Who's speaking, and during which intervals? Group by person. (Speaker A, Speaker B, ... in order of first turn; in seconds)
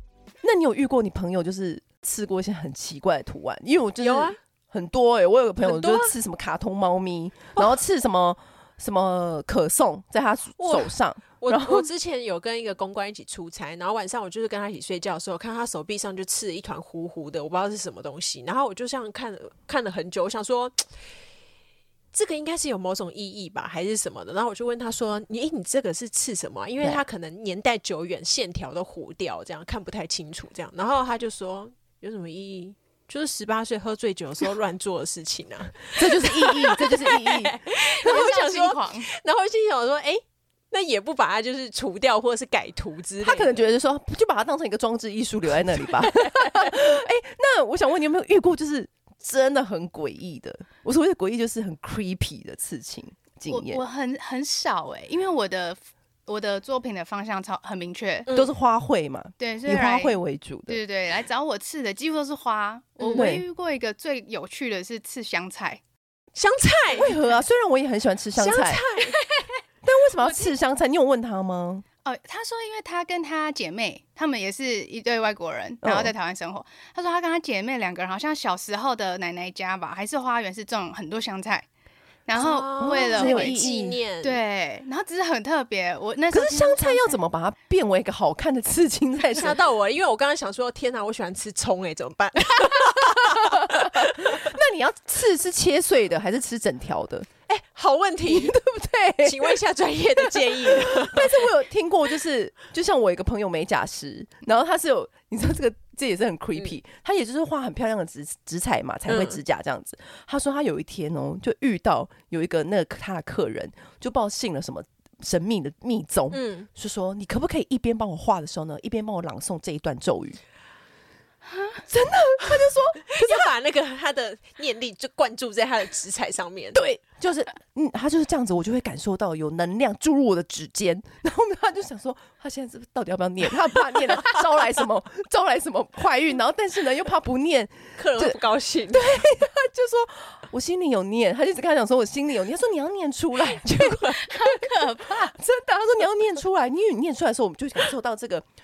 Speaker A: 0.4-11.9, 36.0-38.2, 43.2-53.8, 58.3-60.8, 63.1-63.4, 66.9-68.8, 69.8-71.8, 75.8-76.1, 82.8-84.0, 86.3-89.6, 92.7-97.3, 98.3-99.6, 100.2-120.4, 121.9-123.5, 126.7-148.4
Speaker B: 4.0-4.4, 5.6-6.1, 10.6-20.8, 22.1-43.7, 63.0-63.3, 66.3-67.2, 68.3-69.2, 82.3-84.4, 89.3-94.5, 97.5-98.6, 99.2-101.5, 109.1-109.4, 116.3-116.7, 123.1-126.8, 138.0-139.3
Speaker C: 38.0-39.1, 53.5-58.3, 59.4-65.8, 69.2-69.5, 72.0-81.7, 82.3-83.6, 84.2-87.2, 121.5-121.8, 144.1-145.4